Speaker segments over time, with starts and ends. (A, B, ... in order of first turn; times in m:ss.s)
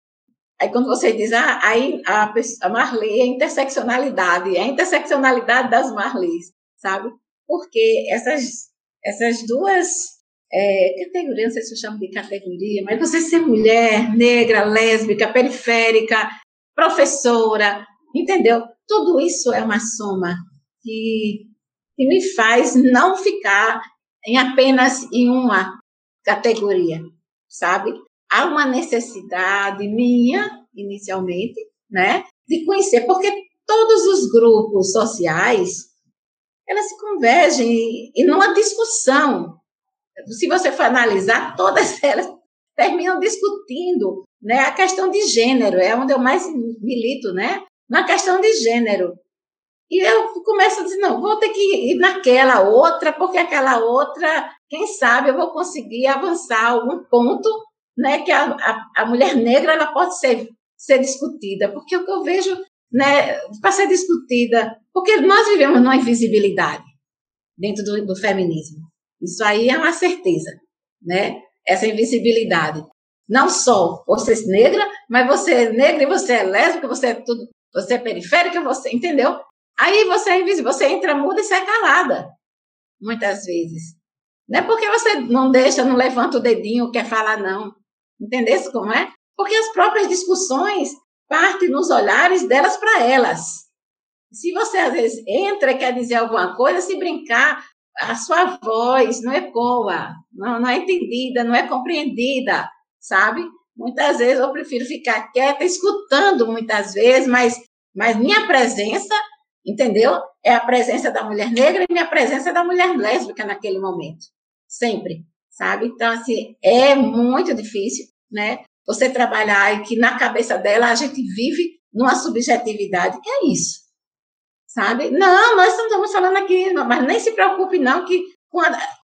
0:00.6-0:25.7 A
0:26.2-0:35.9 A
0:36.7-0:39.6 A
0:40.3-0:49.2 A
0:49.9-1:06.9 A
1:07.6-1:22.3 A
1:23.0-1:24.0 A
1:24.5-1:33.7 A
1:34.3-2:03.8 A
2:04.7-2:08.7 A